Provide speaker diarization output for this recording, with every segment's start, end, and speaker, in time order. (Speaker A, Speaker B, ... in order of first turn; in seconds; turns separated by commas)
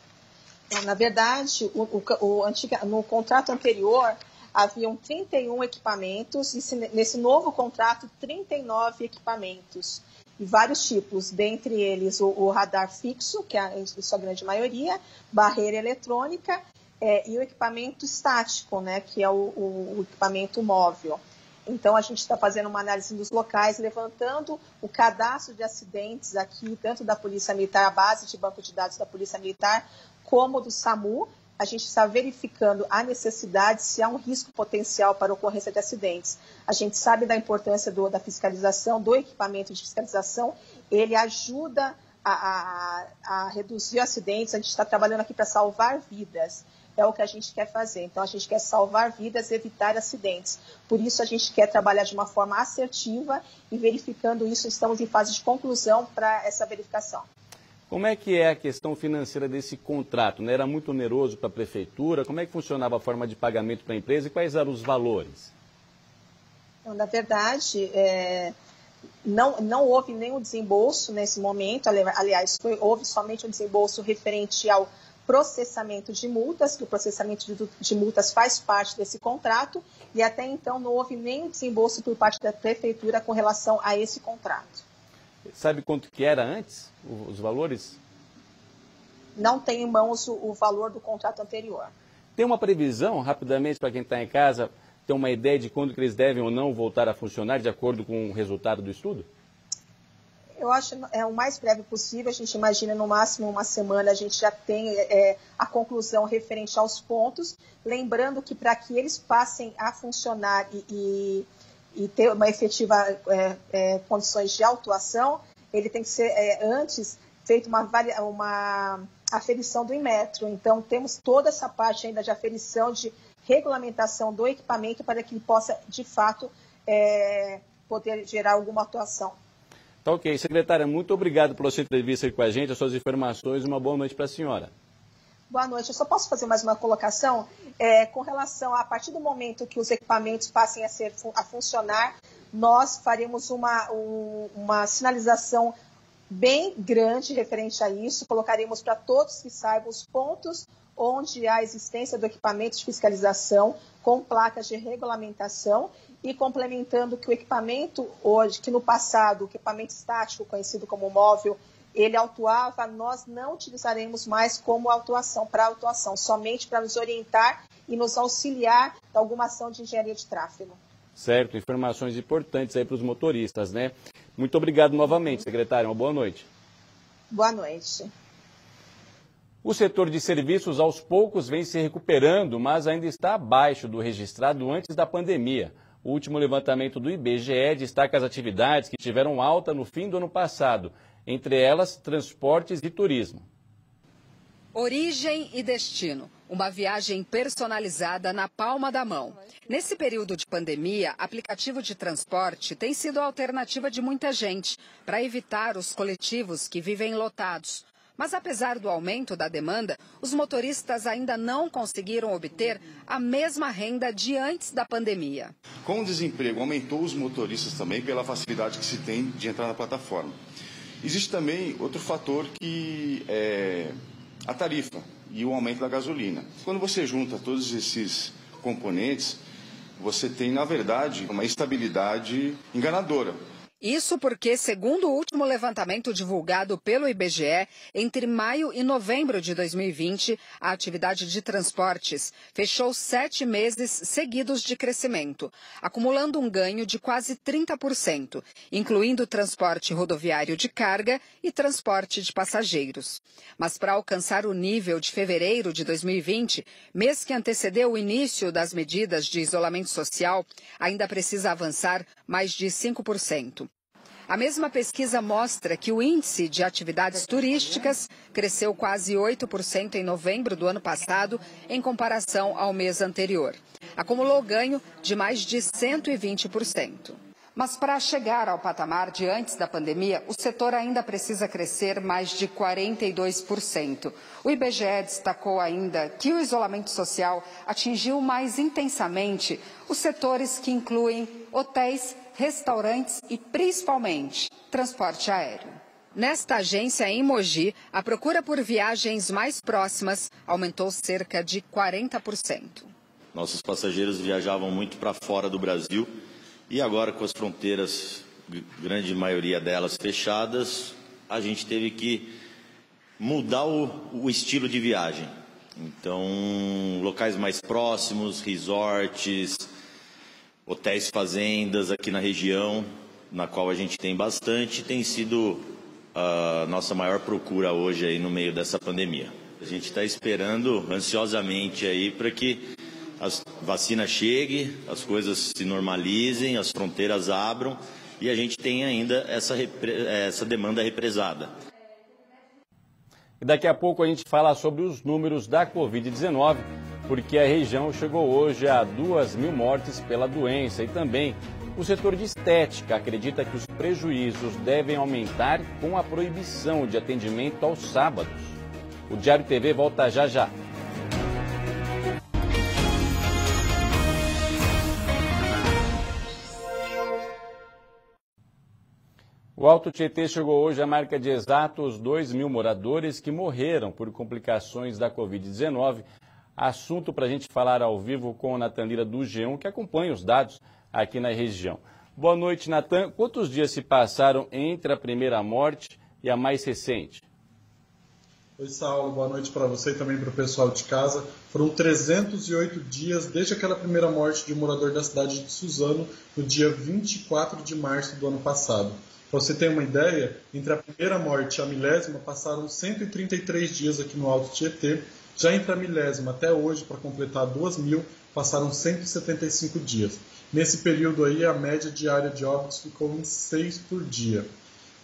Speaker A: 0.7-57.2, Speaker B: 57.9-65.5, Speaker A: 66.8-68.5, Speaker A: 69.2-84.8, Speaker B: 85.5-88.0, Speaker A: 89.4-91.9, Speaker B: 92.4-99.3, Speaker A: 100.6-129.3, Speaker B: 130.0-134.7, Speaker A: 135.5-145.7, Speaker A: 146.3-170.8, Speaker B: 171.2-176.5, Speaker A: 177.3-178.1, Speaker B: 179.6-193.5, Speaker C: 194.7-215.6, Speaker D: 215.8-220.4, Speaker D: 221.0-229.4, Speaker D: 230.0-233.4, Speaker C: 233.8-263.7, Speaker C: 264.3-302.9, Speaker E: 303.3-306.1, Speaker E: 306.7-312.3, Speaker E: 313.2-319.7, Speaker E: 320.6-341.5, Speaker B: 343.4-360.5, Speaker B: 369.6-387.2, Speaker F: 388.6-414.5